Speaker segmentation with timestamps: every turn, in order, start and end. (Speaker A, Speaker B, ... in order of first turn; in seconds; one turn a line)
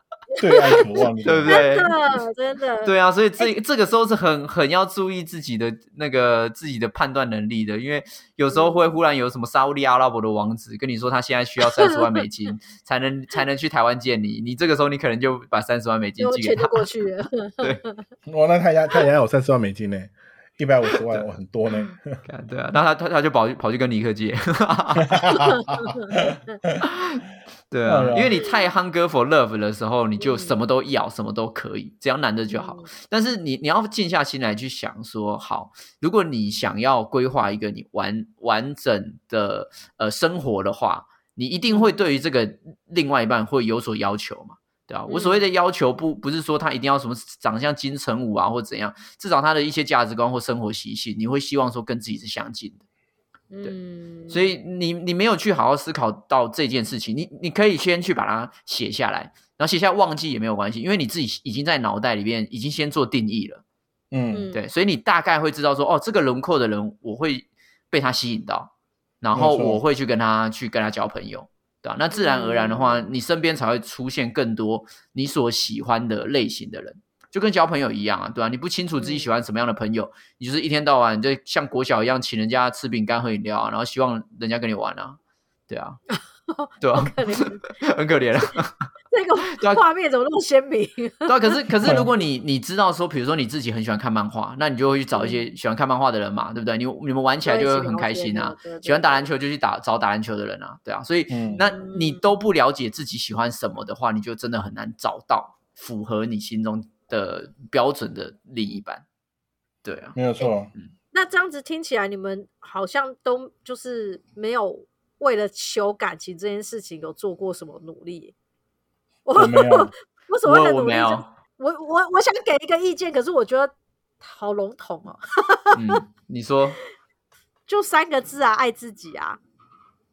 Speaker A: 0.4-0.8
Speaker B: 0.4-1.6
Speaker C: 0.7-1.9
Speaker A: 1.5-3.5
Speaker C: 2.8-16.9
Speaker A: 8.5-8.9
Speaker A: 11.6-12.2
Speaker A: 16.2-18.0
Speaker B: 18.3-22.2
Speaker C: 21.8-25.4
Speaker B: 25.1-25.6
Speaker A: 25.3-26.6
Speaker B: 26.1-26.8
Speaker C: 26.8-52.8
Speaker B: 27.9-28.4
Speaker A: 30.2-30.6
Speaker A: 32.5-32.9
Speaker A: 45.1-45.4
Speaker A: 53.5-54.5
Speaker C: 54.3-63.6
Speaker B: 64.1-64.5
Speaker A: 64.3-64.6
Speaker C: 64.5-68.7
Speaker C: 69.2-85.2
Speaker B: 69.3-69.8
Speaker A: 72.1-73.1
Speaker A: 79.0-79.3
Speaker C: 85.7-86.0
Speaker A: 86.1-87.7
Speaker C: 86.8-88.8
Speaker A: 89.1-92.0
Speaker C: 89.5-89.8
Speaker C: 91.3-109.0
Speaker B: 91.8-92.1
Speaker A: 95.1-95.5
Speaker A: 97.4-99.3
Speaker B: 101.3-101.7
Speaker A: 101.7-102.2
Speaker C: 109.8-110.2
Speaker B: 110.1-110.7
Speaker A: 111.1-118.3
Speaker A: 119.3-126.0
Speaker B: 119.3-119.9
Speaker C: 120.4-121.3
Speaker C: 125.7-126.8
Speaker A: 127.7-129.4